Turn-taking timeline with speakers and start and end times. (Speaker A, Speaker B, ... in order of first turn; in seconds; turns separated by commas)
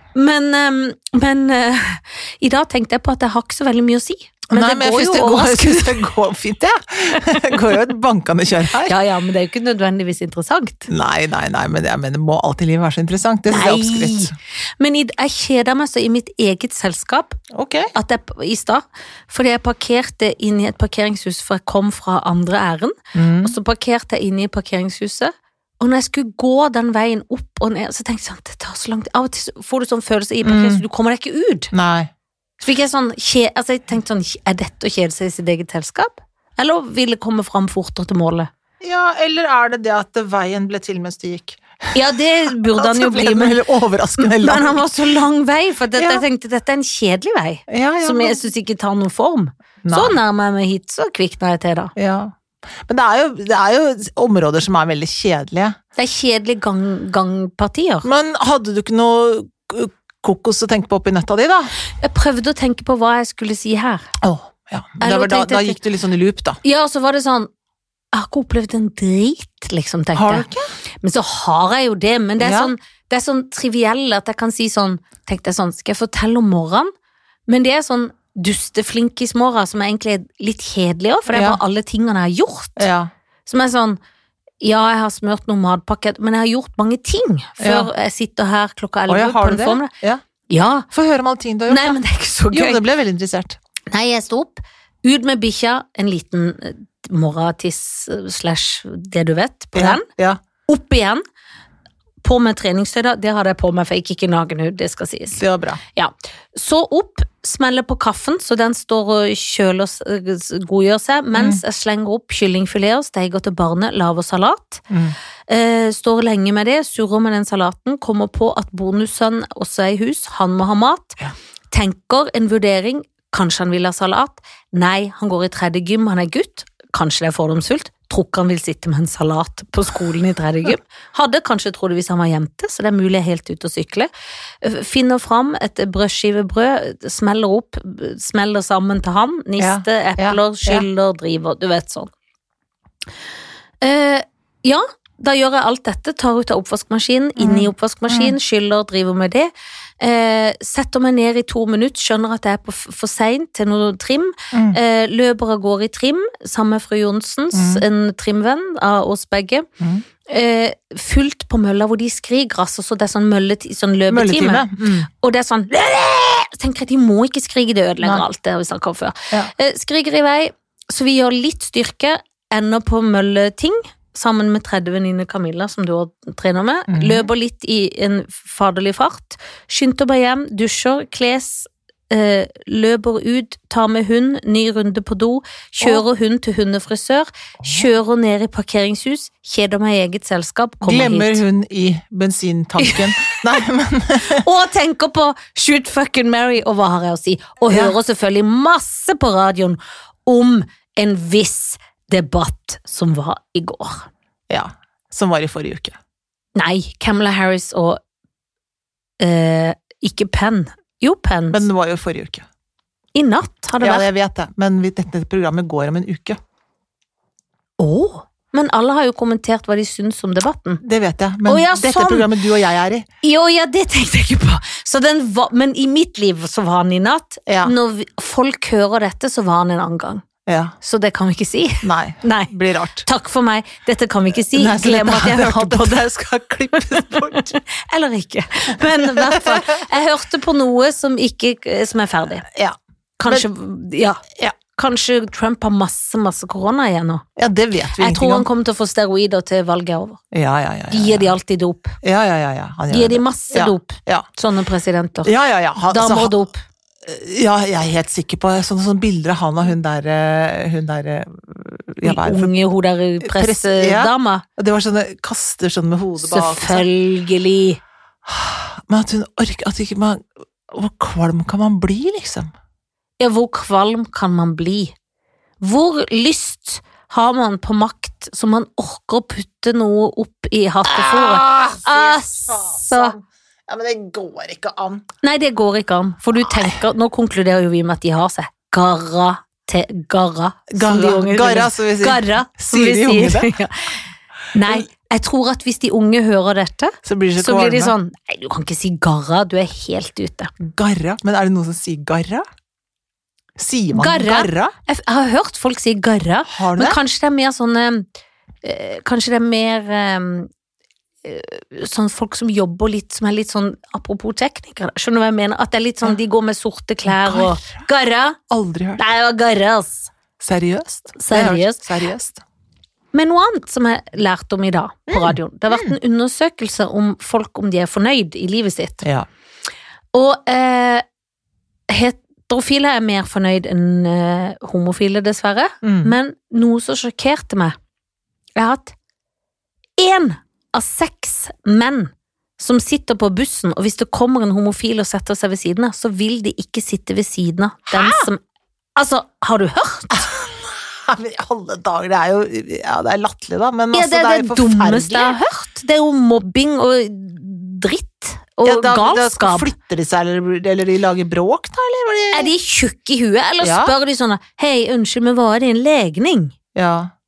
Speaker A: 0.1-6.0, Speaker B: 4.5-8.9, Speaker A: 8.8-10.9, Speaker B: 10.9-14.3, Speaker A: 13.5-17.4, Speaker B: 17.5-17.9, Speaker A: 17.9-31.7, Speaker B: 23.1-23.5, Speaker B: 30.4-30.8, Speaker B: 31.7-32.1, Speaker A: 32.6-38.5, Speaker B: 38.8-41.9, Speaker A: 41.9-43.6, Speaker B: 42.5-44.8, Speaker A: 44.2-51.9, Speaker B: 46.0-46.2, Speaker B: 47.7-48.5, Speaker B: 49.8-50.2, Speaker B: 52.0-55.8, Speaker A: 56.0-58.1, Speaker B: 58.0-61.7, Speaker A: 62.0-64.0, Speaker B: 64.2-66.6, Speaker A: 65.0-65.8, Speaker A: 66.6-67.5, Speaker A: 68.1-70.5, Speaker B: 70.1-70.7, Speaker A: 71.0-76.9, Speaker B: 72.4-72.7, Speaker A: 77.5-82.9, Speaker B: 81.3-81.6, Speaker B: 82.8-83.1, Speaker A: 83.5-84.0, Speaker A: 84.6-89.9, Speaker B: 87.6-87.9, Speaker B: 89.1-90.2, Speaker A: 90.5-90.9, Speaker B: 90.9-92.0, Speaker A: 91.7-92.8, Speaker B: 92.5-93.6, Speaker A: 93.9-100.0, Speaker B: 99.7-100.4, Speaker A: 100.7-101.2, Speaker A: 102.2-105.4, Speaker B: 105.3-105.8, Speaker A: 105.9-114.8, Speaker B: 111.3-111.6, Speaker B: 114.9-115.2, Speaker A: 115.5-121.2, Speaker A: 121.7-134.1, Speaker A: 134.6-142.1, Speaker B: 139.6-140.9, Speaker A: 143.8-159.7, Speaker B: 147.4-148.3, Speaker B: 154.5-154.8, Speaker B: 157.5-157.8, Speaker A: 160.2-191.4, Speaker B: 164.1-165.1, Speaker B: 176.9-177.3, Speaker B: 190.8-194.4, Speaker A: 192.8-193.1, Speaker A: 194.2-204.1, Speaker B: 197.7-197.9, Speaker B: 204.5-206.0, Speaker A: 206.6-208.0, Speaker A: 209.2-211.6, Speaker B: 211.5-212.4, Speaker A: 213.1-214.1, Speaker B: 213.8-216.4, Speaker A: 217.8-220.8, Speaker B: 220.8-223.1, Speaker A: 221.5-222.3, Speaker A: 223.2-230.2, Speaker B: 227.5-227.7, Speaker B: 230.4-230.7, Speaker A: 230.8-232.5, Speaker B: 231.8-233.1, Speaker A: 233.0-236.0, Speaker B: 234.5-237.5, Speaker A: 236.8-242.5, Speaker B: 239.1-239.8, Speaker B: 242.5-243.4, Speaker A: 243.2-247.2, Speaker B: 247.3-248.4, Speaker A: 248.0-250.2, Speaker B: 250.3-251.3, Speaker A: 250.9-252.0, Speaker B: 252.0-254.2, Speaker A: 252.9-255.3, Speaker B: 255.2-256.4, Speaker A: 255.9-256.6, Speaker B: 257.0-262.5, Speaker A: 262.0-264.4, Speaker B: 263.2-266.9, Speaker A: 266.2-267.8, Speaker B: 268.2-272.5, Speaker A: 273.2-274.9, Speaker A: 275.6-283.1, Speaker B: 280.9-285.1, Speaker A: 285.2-293.9, Speaker B: 286.4-286.8, Speaker B: 290.7-293.5, Speaker A: 294.5-300.5, Speaker B: 297.0-297.9, Speaker B: 300.6-302.4, Speaker B: 303.6-304.7, Speaker A: 303.9-308.1, Speaker B: 306.5-307.0, Speaker A: 308.6-310.5, Speaker A: 311.2-318.4, Speaker B: 317.1-317.8, Speaker B: 318.5-319.0, Speaker A: 319.0-320.1, Speaker B: 320.4-322.4, Speaker A: 321.2-321.8, Speaker A: 323.1-329.1, Speaker B: 325.1-325.9, Speaker A: 330.1-331.0, Speaker A: 331.9-337.8, Speaker B: 335.8-336.1, Speaker A: 338.6-338.9, Speaker A: 340.0-348.4, Speaker B: 347.9-348.3, Speaker A: 348.9-350.3, Speaker B: 350.1-355.4, Speaker A: 353.9-359.7, Speaker B: 358.6-362.5, Speaker A: 362.3-366.6, Speaker B: 363.6-363.9, Speaker B: 366.7-367.1